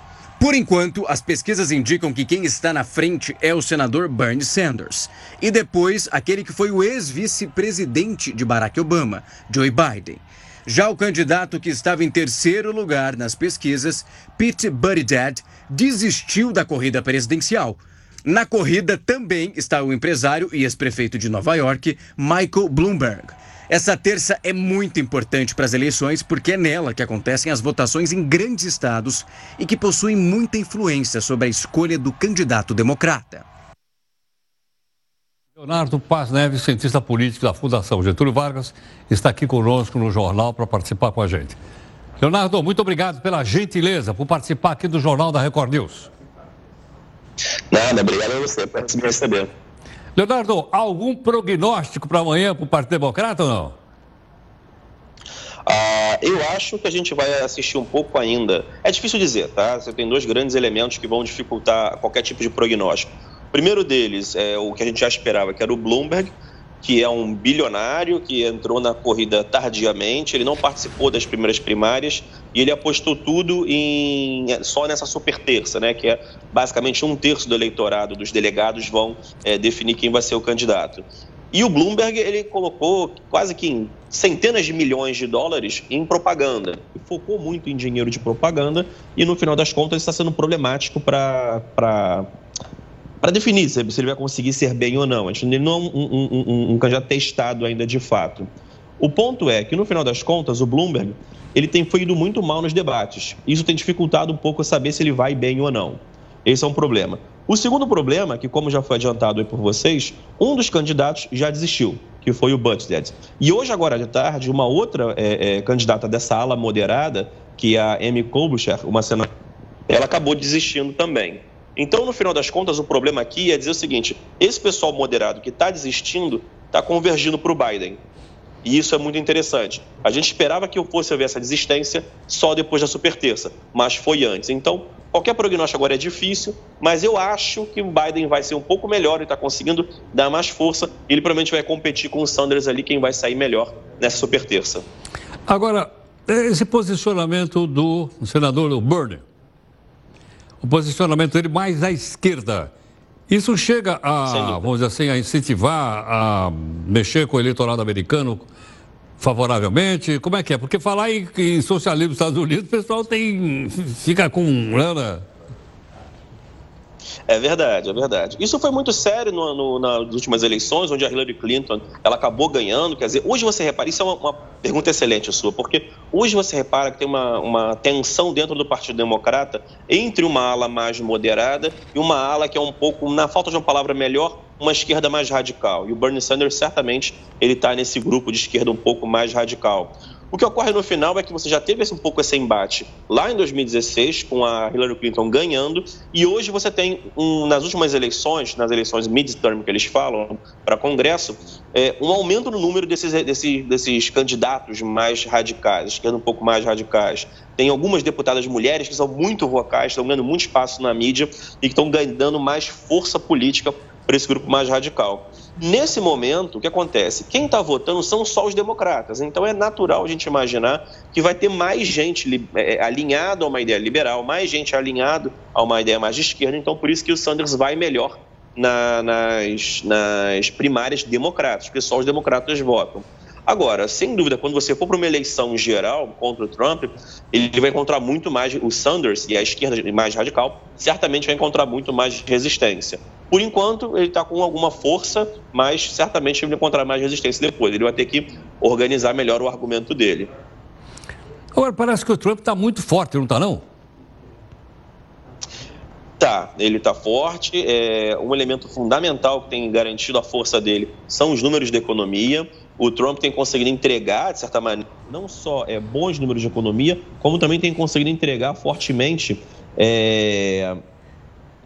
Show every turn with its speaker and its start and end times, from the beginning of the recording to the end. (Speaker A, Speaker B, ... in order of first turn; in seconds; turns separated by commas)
Speaker A: 0.4-33.4, Speaker B: 35.6-41.6, Speaker B: 42.2-46.1, Speaker C: 47.7-49.5, Speaker B: 50.1-53.8, Speaker C: 55.6-92.3, Speaker C: 93.2-98.5, Speaker C: 99.0-119.3, Speaker C: 119.9-128.0, Speaker C: 128.6-144.8, Speaker B: 145.5-149.2, Speaker B: 150.6-152.7, Speaker B: 153.3-158.5, Speaker C: 154.2-154.6, Speaker B: 159.2-165.2, Speaker C: 167.3-250.3, Speaker B: 251.5-253.6, Speaker C: 256.2-270.8